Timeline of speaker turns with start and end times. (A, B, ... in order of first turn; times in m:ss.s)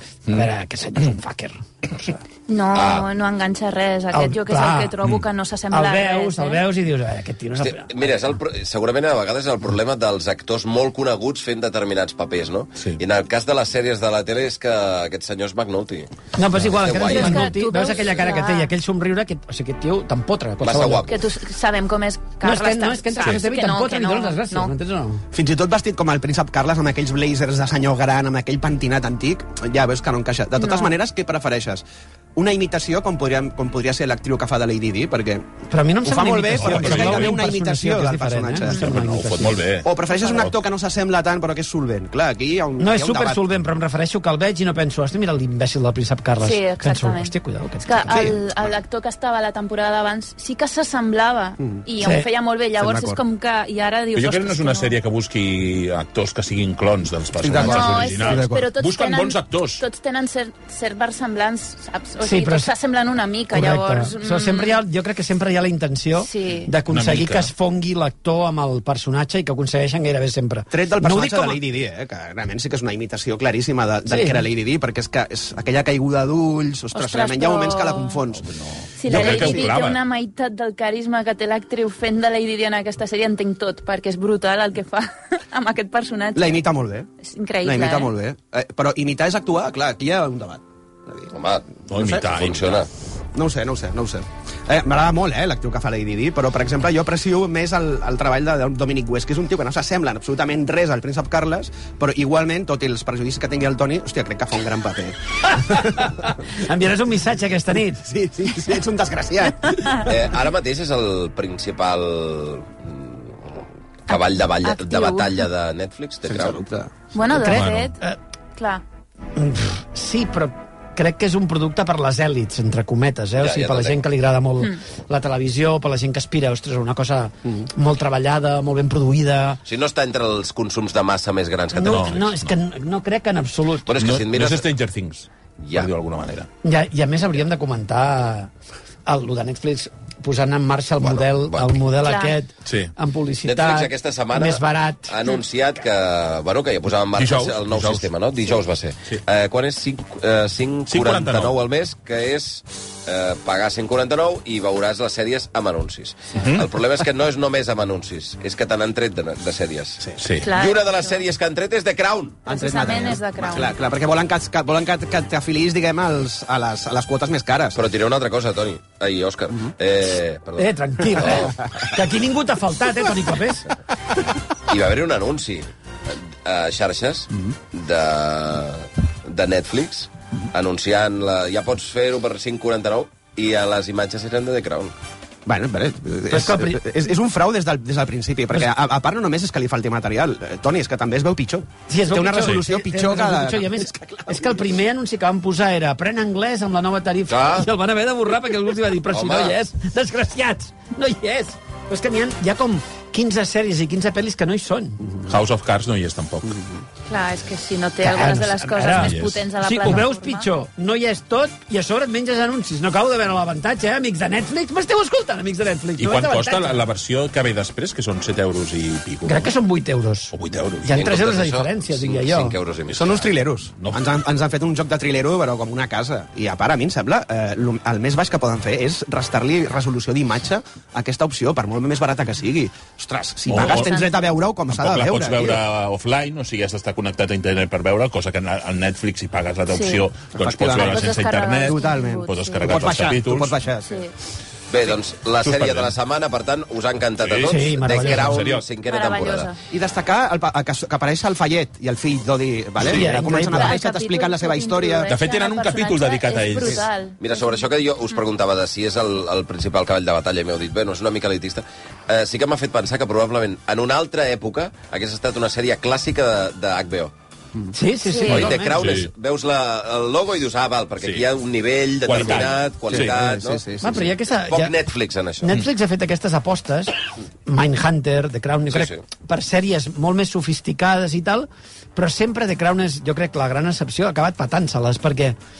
0:00.3-0:02.2 A
0:02.5-0:06.6 B
0:02.7-0:03.1 C
0:04.1-0:04.9 A
0:05.7-0:08.1 A
0:07.6-0:16.1 C
0:16.4-0:21.1 A
0:16.6-0:17.5 C
0:17.0-0:18.7 B
0:20.6-0:21.2 C
0:21.1-0:24.7 B
0:22.4-0:25.2 A
0:25.3-0:31.8 D
0:30.6-0:30.9 B
0:32.4-0:35.4 D
0:35.7-0:39.6 A
0:36.0-0:38.9 D
0:36.6-0:37.4 E
0:38.7-0:40.5 E
0:39.8-0:43.4 D
0:42.8-0:48.4 A
0:46.4-0:47.3 B
0:47.9-0:55.0 B
0:48.1-0:48.4 D
0:52.0-0:52.3 A
0:52.8-0:53.2 D
0:54.1-0:59.8 E
0:57.4-0:58.6 D
0:57.6-1:04.8 B
1:02.2-1:02.7 A
1:03.5-1:11.6 A
1:06.2-1:06.7 B
1:06.9-1:07.5 E
1:10.7-1:18.4 D
1:14.1-1:14.4 A
1:16.9-1:18.2 B
1:18.4-1:20.0 E
1:19.0-1:26.6 B
1:19.1-1:19.7 D
1:26.4-1:27.1 D
1:27.2-1:28.1 B
1:27.6-1:31.3 D
1:31.3-1:32.9 C
1:31.9-1:32.8 E
1:31.9-1:32.4 D
1:33.3-1:46.1 D
1:45.8-1:48.1 A
1:48.0-1:50.1 D
1:50.0-1:56.6 C
1:54.1-1:55.5 B
1:56.3-1:56.9 D
1:57.1-1:58.0 B
1:57.4-1:57.9 E
1:57.4-1:58.2 A
1:58.6-1:58.8 B
1:59.4-2:09.6 A
2:03.4-2:04.0 C
2:09.6-2:12.3 C
2:11.7-2:13.9 A
2:11.9-2:12.5 E
2:13.9-2:14.7 C
2:13.9-2:16.5 E
2:15.6-2:15.9 C
2:16.6-2:18.5 A
2:19.1-2:25.1 A
2:21.0-2:21.8 C
2:22.0-2:22.4 B
2:22.6-2:22.9 E
2:23.4-2:42.4 C
2:27.1-2:28.1 E
2:30.9-2:31.6 E
2:36.4-2:36.7 E
2:40.2-2:40.5 E
2:40.4-2:41.2 B
2:42.4-2:47.8 D
2:42.5-2:43.7 B
2:47.7-2:51.7 C
2:50.6-2:53.7 A
2:54.7-3:04.9 C
3:05.4-3:14.6 D
3:06.3-3:06.8 A
3:11.9-3:25.1 A
3:17.3-3:17.7 C
3:19.1-3:19.6 C
3:25.2-3:26.6 E
3:27.1-3:30.5 B
3:28.0-3:36.9 A
3:28.9-3:29.4 E
3:36.0-3:39.5 E
3:39.2-3:42.6 A
3:40.3-3:41.0 E
3:40.9-3:43.3 C
3:42.9-3:55.6 D
3:43.8-3:44.1 E
3:53.5-3:54.0 E
3:53.5-3:54.4 B
3:54.7-4:03.6 E
3:59.7-4:00.1 B
4:00.3-4:04.0 D
4:00.7-4:03.1 B
4:03.8-4:04.1 B
4:04.7-4:09.5 C
4:05.4-4:06.0 E
4:07.2-4:08.7 E
4:07.4-4:08.6 A
4:08.8-4:09.6 B
4:09.7-4:15.1 D
4:12.8-4:13.1 E
4:12.8-4:13.8 A
4:13.3-4:18.2 B
4:15.1-4:16.8 E
4:17.2-4:27.1 C
4:27.7-4:28.8 A
4:28.1-4:28.5 B
4:28.2-4:33.8 C
4:28.3-4:29.1 E
4:31.0-4:31.2 E
4:32.0-4:33.2 E
4:32.2-4:34.1 D
4:33.8-4:34.7 A
4:34.4-4:35.6 C
4:35.4-4:36.9 A
4:37.4-4:45.4 A
4:38.7-4:39.0 C